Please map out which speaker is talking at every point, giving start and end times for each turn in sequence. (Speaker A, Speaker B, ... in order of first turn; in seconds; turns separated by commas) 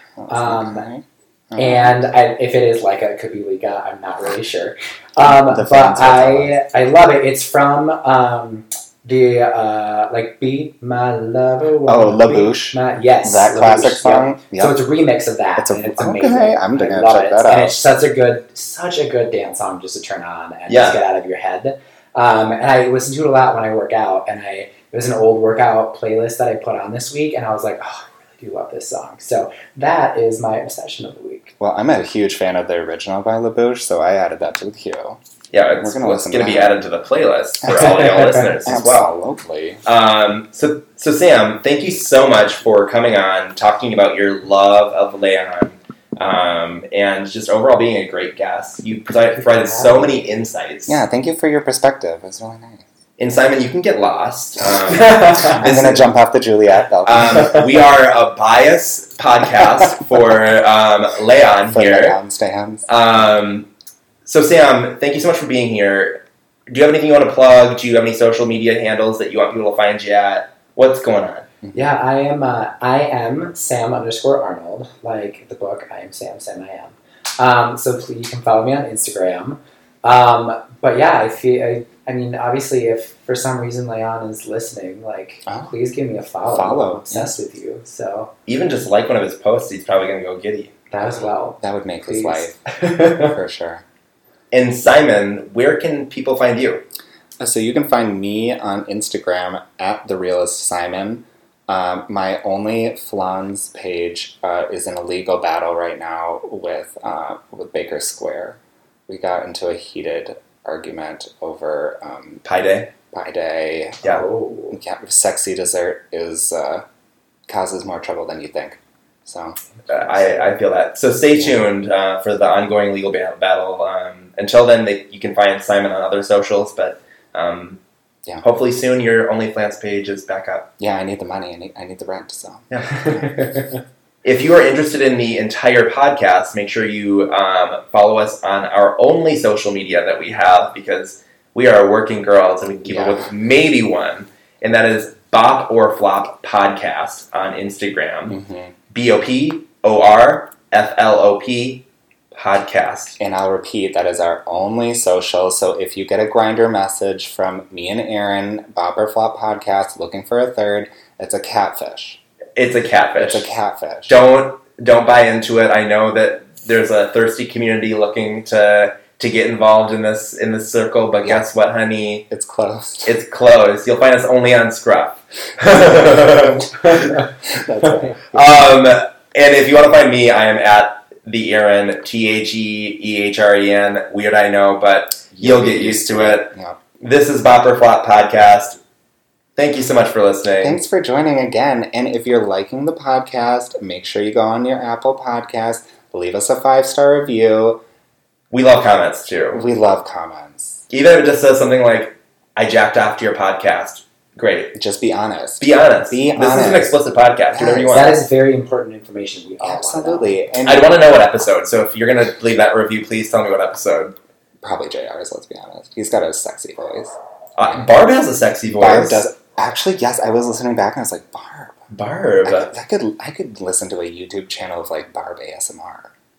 Speaker A: 0.2-1.9, Speaker B: 0.3-0.8, Speaker B: 1.6-31.5, Speaker A: 5.2-6.6, Speaker A: 11.8-14.8, Speaker A: 15.6-17.8, Speaker C: 20.7-21.0, Speaker A: 31.6-35.2, Speaker C: 35.5-39.1, Speaker A: 35.8-36.7, Speaker B: 37.7-38.4, Speaker A: 38.6-39.8, Speaker C: 39.8-51.0, Speaker B: 49.3-50.4, Speaker A: 50.9-52.8, Speaker C: 53.2-56.1, Speaker B: 55.1-55.5, Speaker A: 55.4-57.6, Speaker C: 57.0-62.2, Speaker A: 61.7-62.9, Speaker C: 62.9-63.7, Speaker C: 64.2-71.5, Speaker B: 71.7-88.3, Speaker A: 85.5-85.7, Speaker A: 86.5-87.4, Speaker C: 88.5-90.7, Speaker B: 90.9-93.3, Speaker A: 91.6-93.8, Speaker C: 94.5-96.8, Speaker A: 97.4-112.4, Speaker C: 112.4-112.9, Speaker A: 113.1-114.0, Speaker B: 114.0-114.8, Speaker A: 114.7-116.8, Speaker A: 117.5-119.6, Speaker C: 119.9-127.8, Speaker C: 128.4-130.7, Speaker A: 130.8-133.6, Speaker C: 132.7-133.0, Speaker B: 133.0-133.7, Speaker C: 134.2-148.4, Speaker A: 142.8-143.3, Speaker A: 148.3-148.7, Speaker C: 148.9-153.2, Speaker A: 153.2-162.2, Speaker C: 162.6-163.5, Speaker A: 163.2-164.2, Speaker C: 164.1-172.2, Speaker A: 172.3-173.2, Speaker C: 173.1-177.3, Speaker A: 177.5-178.4, Speaker C: 178.2-188.8, Speaker A: 185.3-186.8, Speaker C: 189.6-190.8, Speaker A: 190.6-197.8, Speaker C: 198.5-199.6, Speaker A: 199.5-200.8, Speaker C: 200.9-204.7, Speaker A: 204.7-206.9, Speaker C: 205.6-208.2, Speaker A: 207.5-208.2, Speaker B: 207.9-210.4, Speaker A: 209.6-211.2, Speaker C: 210.6-214.2, Speaker A: 214.6-217.1, Speaker C: 217.6-219.2, Speaker A: 218.7-221.8, Speaker C: 221.9-222.7, Speaker A: 222.4-226.1